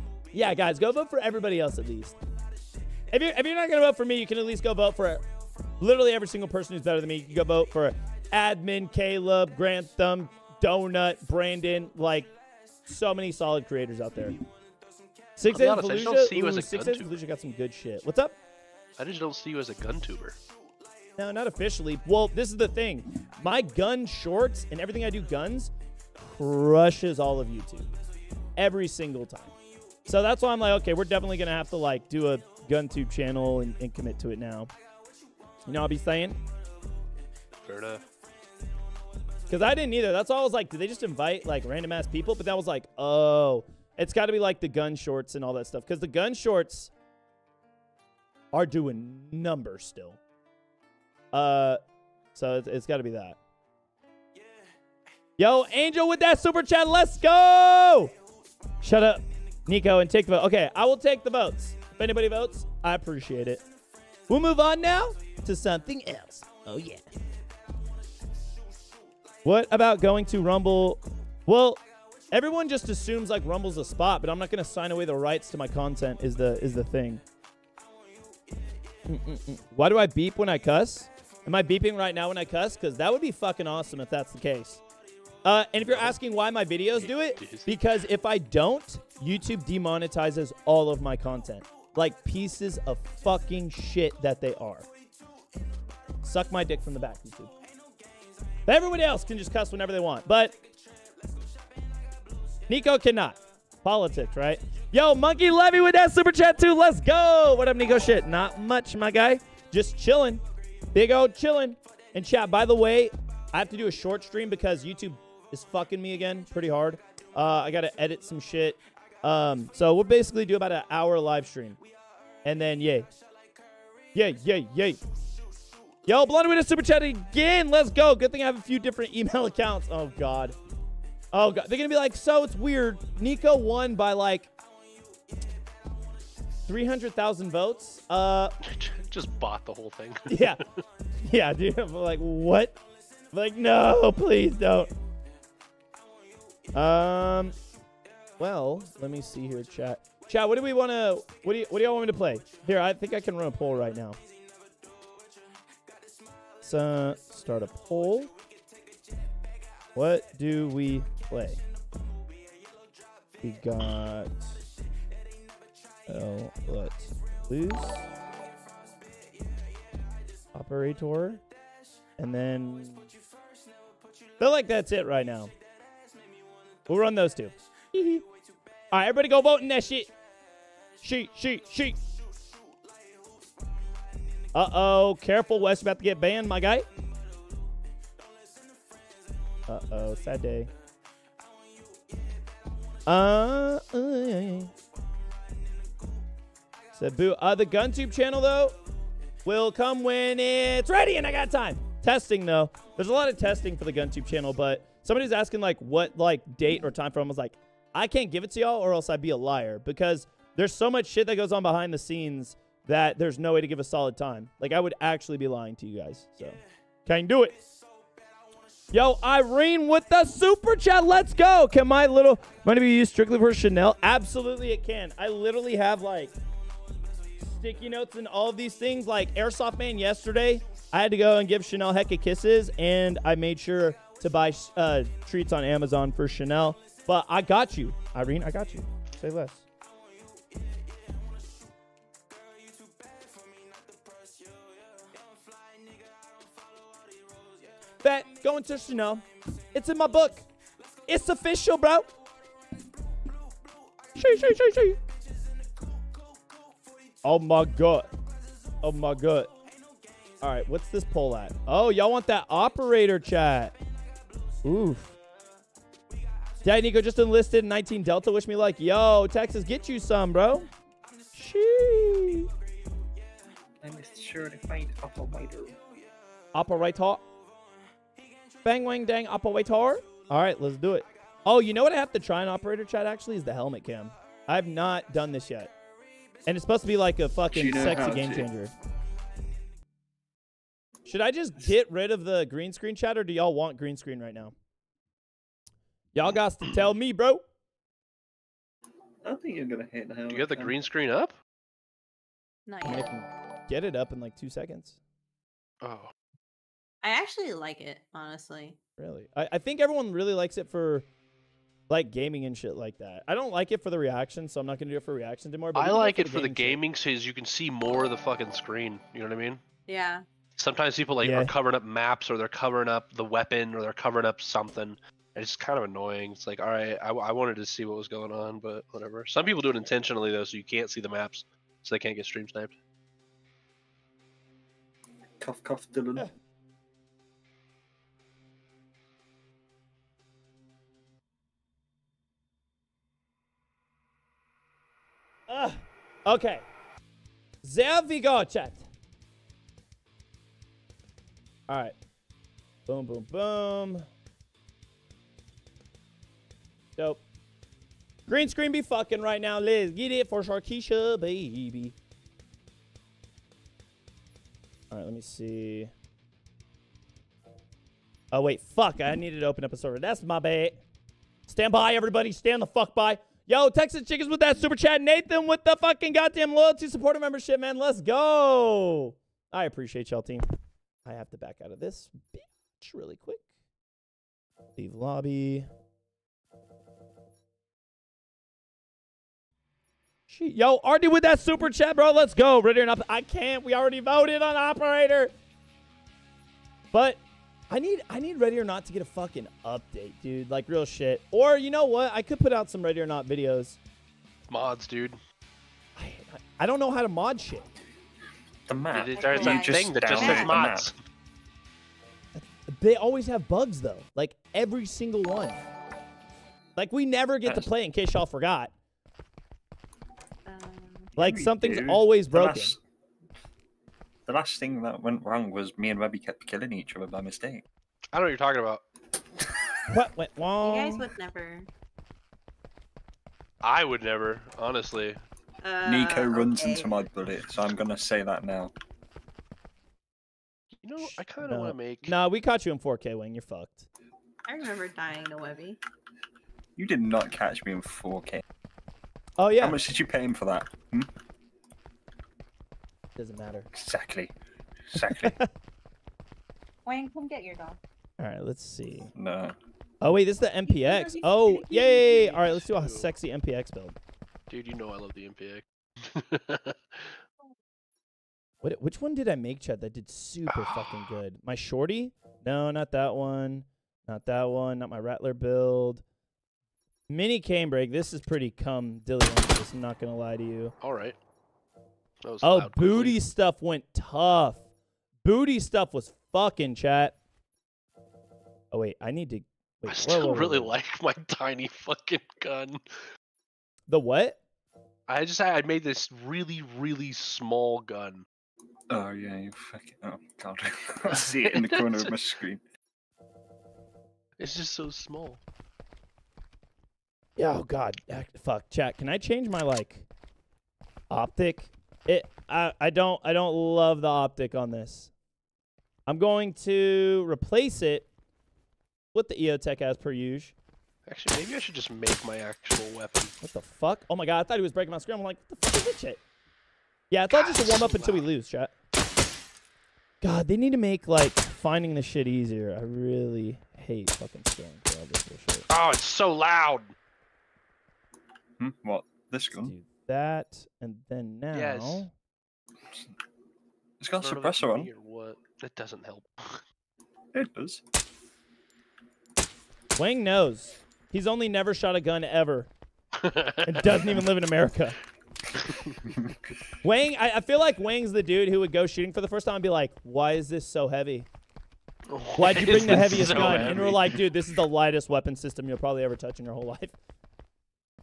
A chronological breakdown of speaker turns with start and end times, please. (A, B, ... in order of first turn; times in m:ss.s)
0:00.3-0:02.1 A
0:03.1-0:05.2 A
0:05.8-0:12.3 A
0:12.8-0:14.4 A
0:15.4-0:18.4 A
0:15.5-0:17.1 B
0:19.0-0:20.4 B
0:21.2-0:27.9 A
0:28.6-0:29.5 A
0:30.0-0:34.7 A
0:35.6-0:36.4 A
0:37.6-0:38.0 B
0:39.5-0:46.9 A
0:48.5-0:50.2 A
0:51.3-0:51.8 A
0:52.3-0:53.4 A
0:55.4-0:58.1 A
0:58.8-1:03.6 A
1:04.3-1:07.0 A
1:09.4-1:11.8 A
1:12.3-1:17.2 A
1:19.1-1:24.8 A
1:25.4-1:34.9 A
1:27.0-1:27.7 B
1:36.2-1:37.5 A
1:38.7-1:40.5 A
1:42.7-2:01.8 A
2:02.4-2:03.1 A
2:04.1-2:05.0 A
2:06.1-2:10.6 A
2:11.3-2:14.5 A
2:16.7-2:18.5 A
2:18.6-2:20.8 B
2:20.3-2:20.6 A
2:21.2-2:22.8 A
2:23.3-2:24.9 A
2:26.7-2:27.6 A
2:28.4-2:34.2 A
2:36.6-2:38.3 A
2:39.9-2:41.6 A
2:43.4-2:44.6 A
2:46.1-2:48.1 A
2:50.5-2:51.4 A
2:52.2-2:53.1 A
2:54.4-2:55.5 A
2:56.9-2:58.2 A
2:58.9-3:00.1 A
3:01.0-3:02.0 A
3:04.5-3:06.8 A
3:09.7-3:10.7 A
3:13.1-3:14.7 A
3:16.9-3:18.8 A
3:19.4-3:37.6 A
3:38.9-3:46.3 A
3:47.4-3:59.6 A
4:08.0-4:10.4 A
4:11.1-4:12.1 A
4:14.1-4:15.0 A
4:17.2-4:18.1 A
4:18.8-4:19.5 A
4:20.4-4:23.7 A
4:24.6-4:25.2 A
4:26.6-4:30.7 A
4:31.3-4:32.5 A
4:33.8-4:35.8 C
4:36.5-4:37.2 A
4:38.6-4:45.7 A
4:46.5-4:48.7 A
4:47.5-4:48.5 C
4:51.1-4:54.5 A
4:56.1-4:57.4 A
4:59.2-5:00.8 C
5:00.3-5:01.3 B
5:02.6-5:03.1 D
5:02.8-5:05.0 A
5:05.8-5:06.1 B
5:07.0-5:08.8 D
5:09.0-5:11.0 A
5:11.9-5:16.8 A
5:15.8-5:19.6 B
5:19.9-5:20.2 D
5:20.6-5:32.7 B
5:21.2-5:21.5 A
5:35.4-5:36.3 C
5:45.5-5:46.6 A
5:47.6-5:48.9 A
5:51.7-5:52.0 A
5:52.9-5:54.1 A
5:58.3-6:01.9 A
6:04.9-6:05.9 A
6:08.3-6:10.8 A
6:11.5-6:20.4 A
6:21.0-6:23.4 A
6:24.8-6:25.7 A
6:30.3-6:35.3 A
6:36.9-6:43.8 A
6:44.5-6:45.2 B
6:46.0-6:47.7 A
6:48.7-6:50.9 C
6:48.9-6:51.0 B
6:49.1-6:50.6 D
6:52.3-6:55.6 A
6:56.8-6:58.7 A
7:00.4-7:01.1 D
7:01.2-7:02.8 A
7:01.2-7:02.8 C
7:04.3-7:07.6 C
7:08.1-7:08.8 B
7:09.9-7:11.1 A
7:10.6-7:11.7 D
7:13.6-7:15.2 B
7:15.6-7:16.9 D
7:15.8-7:18.7 C
7:20.8-7:22.2 B
7:21.0-7:23.9 A
7:24.4-7:25.8 D
7:26.8-7:28.4 C
7:29.4-7:29.8 A
7:29.6-7:31.1 C
7:33.2-7:33.7 A
7:33.7-7:34.3 C
7:34.9-7:35.4 C
7:35.0-7:35.5 A
7:36.8-7:37.8 D
7:38.2-7:39.1 A
7:39.1-7:39.6 C
7:40.0-7:44.0 A
7:40.6-7:42.2 D
7:41.6-7:43.1 B
7:44.5-7:47.1 B
7:48.6-7:56.0 A
7:50.5-7:51.1 B
7:57.1-8:00.7 A
8:00.8-8:01.2 B
8:02.2-8:03.2 B
8:02.4-8:04.6 A
8:05.2-8:07.2 A
8:08.7-8:10.7 A
8:09.9-8:12.8 B
8:13.9-8:14.4 A
8:15.1-8:18.2 B
8:18.9-8:22.6 C
8:21.0-8:22.2 B
8:24.4-8:25.4 B
8:27.4-8:30.0 A
8:31.1-8:35.1 A
8:36.1-8:38.1 A
8:39.1-8:40.5 A
8:41.1-8:43.3 B
8:43.4-8:46.2 A
8:47.1-8:48.7 A
8:47.3-8:48.3 B
8:50.2-8:55.7 A
8:55.7-8:56.9 B
8:58.6-8:59.7 C
8:59.5-9:02.1 A
9:01.5-9:02.0 B
9:04.0-9:04.9 C
9:04.2-9:06.6 B
9:07.3-9:07.8 C
9:09.9-9:12.7 A
9:13.1-9:14.3 B
9:13.6-9:15.0 A
9:15.6-9:16.0 B
9:16.0-9:16.5 C
9:16.8-9:21.3 A
9:22.1-9:24.2 B
9:22.4-9:26.9 A
9:23.2-9:24.1 C